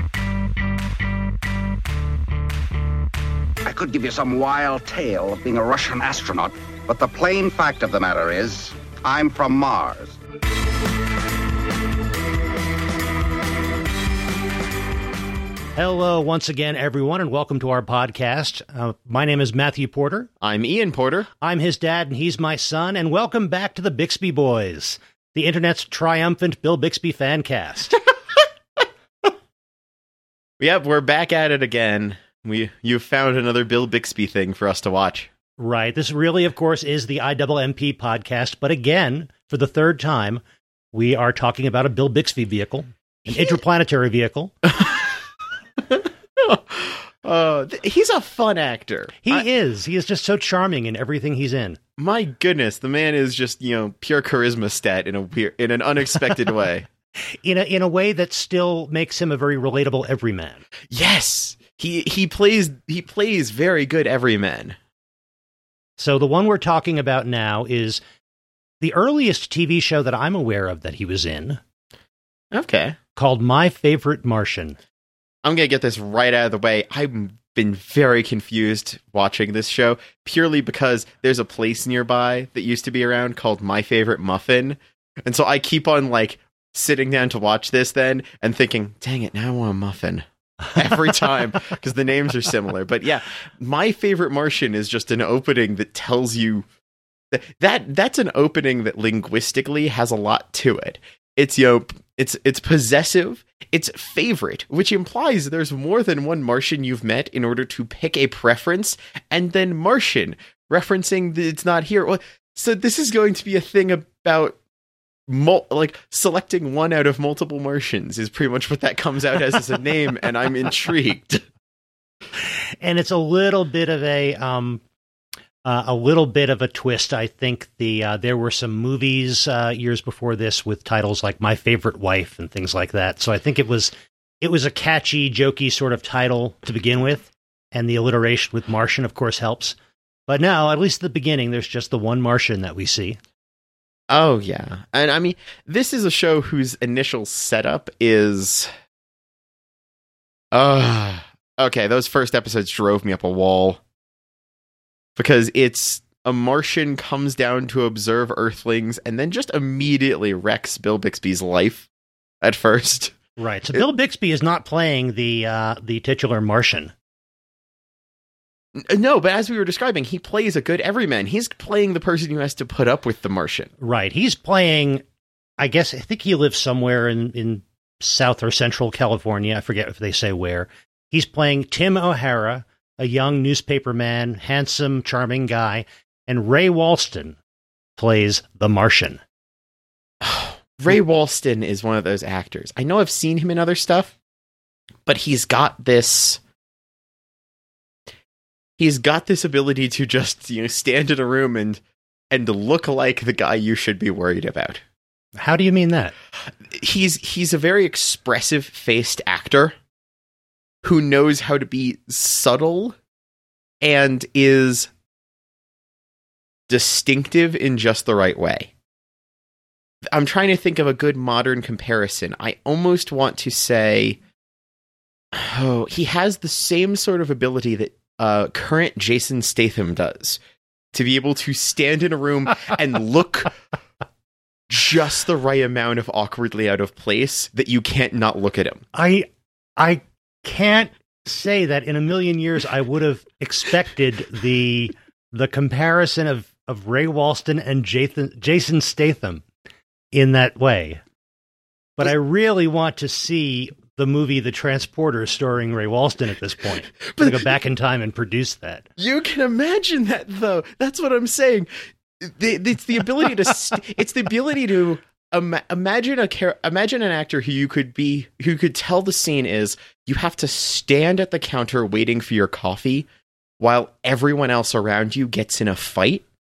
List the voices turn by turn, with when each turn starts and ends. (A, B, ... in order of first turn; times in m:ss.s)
0:03.6-0:10.2 A
0:15.8-0:20.3 B
0:20.4-0:21.3 C
0:21.4-0:28.0 B
0:30.6-0:35.3 C
0:35.6-0:40.4 B
0:40.9-0:44.5 B
0:44.8-0:45.1 C
0:45.9-0:49.4 C
0:49.2-0:51.8 B
0:52.0-0:56.9 C
0:57.3-1:00.6 B
1:00.9-1:04.8 C
1:06.0-1:08.0 B
1:08.8-1:11.6 B
1:12.5-1:13.0 C
1:13.2-1:14.8 B
1:15.4-1:36.6 C
1:37.3-1:54.6 C
1:55.3-2:01.4 C
2:02.8-2:04.8 B
2:05.6-2:19.8 B
2:20.3-2:23.2 B
2:24.1-2:28.7 C
2:30.5-2:33.8 C
2:35.2-2:41.9 C
2:42.4-2:43.2 C
2:43.4-2:46.9 B
2:48.7-2:53.7 C
2:53.8-2:55.0 B
2:55.6-3:07.4 B
3:08.0-3:09.2 B
3:10.2-3:14.1 C
3:15.0-3:16.4 C
3:18.8-3:24.8 C
3:25.4-3:26.1 B
3:26.4-3:29.8 C
3:30.8-3:33.0 C
3:33.8-3:34.9 C
3:36.7-3:38.7 C
3:40.1-3:44.2 C
3:45.3-3:50.4 C
3:50.9-3:53.6 C
3:54.7-3:58.8 C
3:58.9-4:09.4 B
4:10.1-4:11.0 B
4:12.0-4:18.8 B
4:17.0-4:17.5 C
4:19.0-4:33.1 C
4:33.6-4:36.2 C